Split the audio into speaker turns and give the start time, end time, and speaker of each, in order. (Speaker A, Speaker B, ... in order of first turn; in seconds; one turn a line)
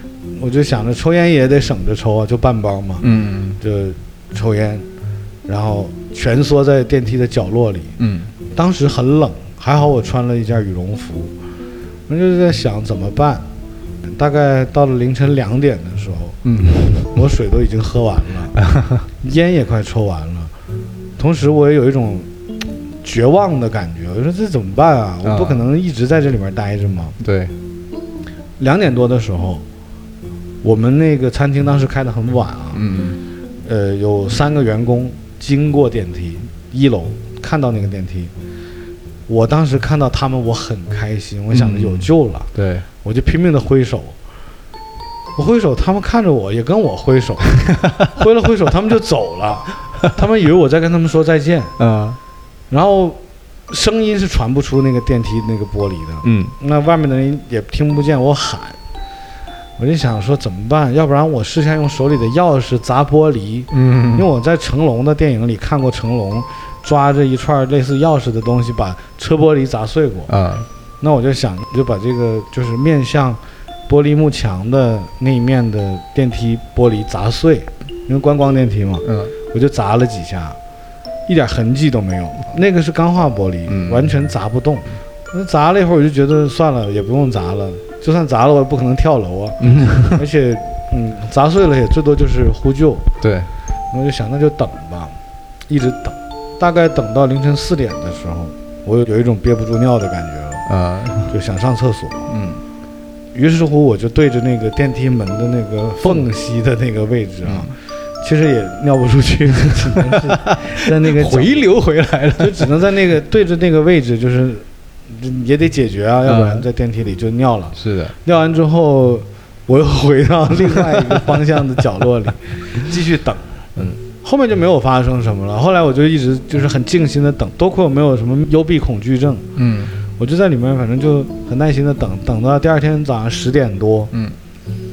Speaker A: 0.3-3.0
Speaker B: 3.0-3.6
Speaker A: 3.6-4.8
Speaker A: 5.5-7.9
Speaker B: 8.0-8.3
Speaker A: 8.5-11.3
Speaker A: 12.1-13.4
Speaker A: 14.0-16.4
Speaker B: 16.4-17.2
Speaker A: 17.0-18.6
Speaker B: 18.6-19.0
Speaker A: 19.2-20.5
Speaker A: 21.2-22.3
Speaker A: 23.0-27.1
Speaker B: 25.2-25.6
Speaker B: 27.2-27.5
Speaker A: 28.6-29.6
Speaker A: 30.6-32.8
Speaker B: 32.7-33.2
Speaker A: 33.6-38.3
Speaker A: 39.3-42.5
Speaker B: 41.5-42.9
Speaker A: 43.0-44.1
Speaker A: 45.4-51.7
Speaker B: 51.8-52.2
Speaker A: 52.7-53.2
Speaker A: 53.7-58.8
Speaker B: 56.2-56.5
Speaker A: 59.8-70.3
Speaker B: 63.7-64.3
Speaker B: 70.3-70.6
Speaker A: 71.0-80.6
Speaker B: 79.0-79.3
Speaker A: 81.3-93.1
Speaker B: 83.7-84.1
Speaker B: 89.6-90.2
Speaker B: 93.2-93.5
Speaker A: 93.9-95.1
Speaker A: 95.7-100.7
Speaker B: 100.7-101.3
Speaker A: 101.3-102.3
Speaker B: 102.3-102.6
Speaker A: 103.3-111.7
Speaker B: 109.8-112.7
Speaker A: 112.4-123.5
Speaker B: 116.2-116.7
Speaker B: 117.8-118.1
Speaker B: 120.6-121.4
Speaker A: 124.2-129.4
Speaker B: 129.6-129.9
Speaker A: 130.2-134.1